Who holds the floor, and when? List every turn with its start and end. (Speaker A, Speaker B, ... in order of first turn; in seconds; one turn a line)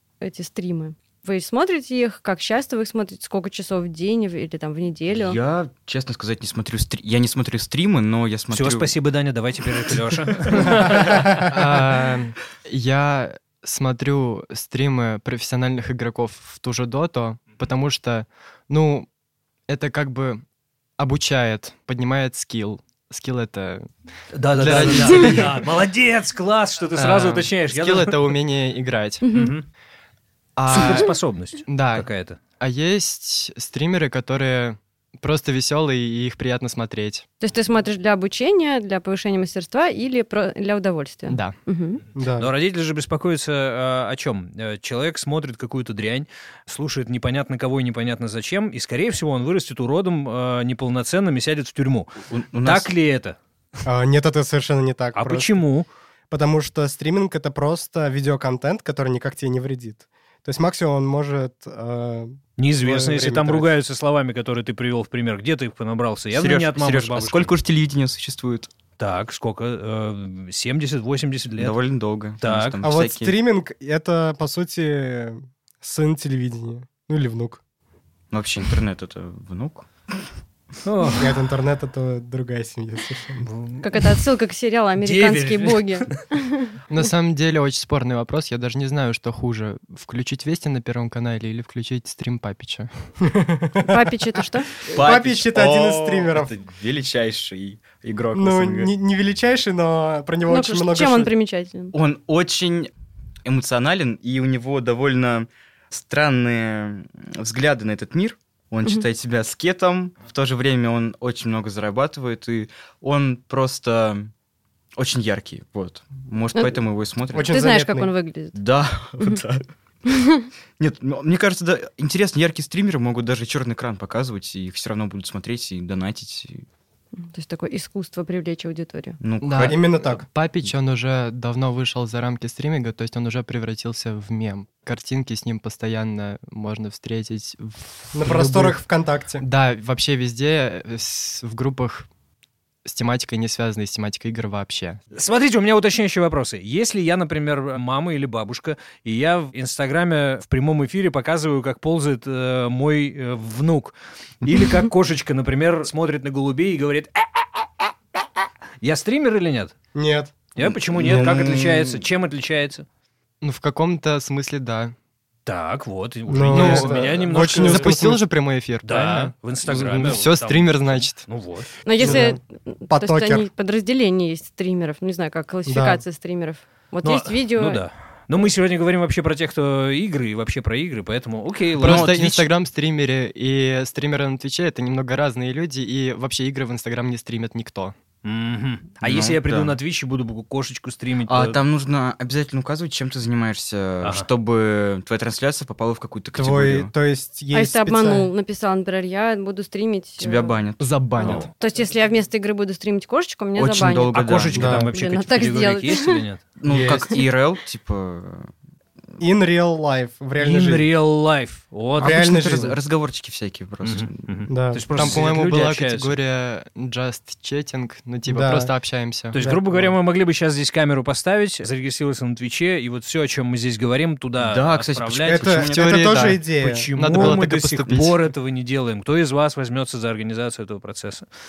Speaker A: 0.2-5.4
Speaker B: 5.1-9.0
Speaker C: 8.5-11.6
Speaker D: 11.3-19.1
Speaker D: 19.7-20.4
Speaker D: 21.0-23.9
Speaker C: 24.3-28.3
Speaker D: 24.5-25.7
Speaker D: 26.9-29.3
Speaker A: 29.2-29.5
Speaker C: 29.3-29.7
Speaker D: 30.6-31.1
Speaker C: 30.7-32.4
Speaker D: 31.7-37.2
Speaker A: 37.4-42.0
Speaker D: 41.3-41.6
Speaker E: 42.1-42.5
Speaker C: 42.4-53.4
Speaker B: 52.3-52.9
Speaker E: 53.9-55.6
Speaker C: 55.1-55.9
Speaker E: 56.3-63.7
Speaker C: 62.6-67.5
Speaker B: 66.3-68.7
Speaker C: 69.0-71.8
Speaker B: 71.6-73.3
Speaker C: 72.4-72.8
Speaker E: 72.8-77.6
Speaker B: 78.3-80.2
Speaker C: 80.8-81.3
Speaker E: 81.1-83.5
Speaker C: 83.4-84.2
Speaker A: 83.8-86.7
Speaker C: 85.0-86.2
Speaker D: 86.9-92.9
Speaker E: 93.2-94.0
Speaker A: 93.8-94.7
Speaker B: 94.9-98.9
Speaker E: 94.9-96.5
Speaker E: 98.3-101.3
Speaker A: 100.5-101.9
Speaker B: 101.9-102.9
Speaker B: 103.5-114.3
Speaker B: 115.0-117.6
Speaker E: 117.3-118.1
Speaker A: 117.4-118.6
Speaker B: 118.5-119.6
Speaker A: 120.1-120.5
Speaker B: 120.8-126.7
Speaker A: 127.2-129.2
Speaker B: 129.2-129.8
Speaker D: 129.4-138.8
Speaker E: 129.6-130.2
Speaker E: 138.1-139.4
Speaker D: 139.4-142.1
Speaker D: 142.8-145.0
Speaker C: 145.1-157.7
Speaker C: 158.8-159.7
Speaker E: 159.9-160.3
Speaker C: 160.6-162.8
Speaker B: 160.6-162.1
Speaker D: 163.4-164.9
Speaker C: 165.5-168.0
Speaker E: 166.3-168.2
Speaker D: 166.5-171.2
Speaker C: 168.8-171.7
Speaker A: 171.8-177.8
Speaker E: 172.0-172.4
Speaker E: 172.9-173.5
Speaker E: 175.7-176.0
Speaker C: 177.0-182.2
Speaker B: 181.8-182.5
Speaker D: 181.8-187.9
Speaker C: 188.2-191.6
Speaker B: 189.0-189.8
Speaker B: 191.3-196.9
Speaker C: 194.0-194.3
Speaker E: 196.3-198.3
Speaker A: 197.5-200.6
Speaker B: 200.2-201.5
Speaker D: 200.8-201.5
Speaker A: 201.2-206.2
Speaker B: 203.6-204.8
Speaker C: 204.1-206.4
Speaker E: 204.6-204.9
Speaker B: 206.6-208.5
Speaker E: 206.6-207.1
Speaker E: 209.2-210.9
Speaker C: 210.4-212.7
Speaker E: 212.0-212.8
Speaker B: 212.0-214.4
Speaker C: 213.8-216.2
Speaker E: 214.5-214.9
Speaker D: 214.9-219.9
Speaker B: 215.0-215.4
Speaker E: 218.3-218.7
Speaker C: 219.3-225.7
Speaker B: 224.4-226.3
Speaker E: 225.3-227.4
Speaker D: 225.7-226.4
Speaker C: 226.5-231.3
Speaker D: 227.0-228.1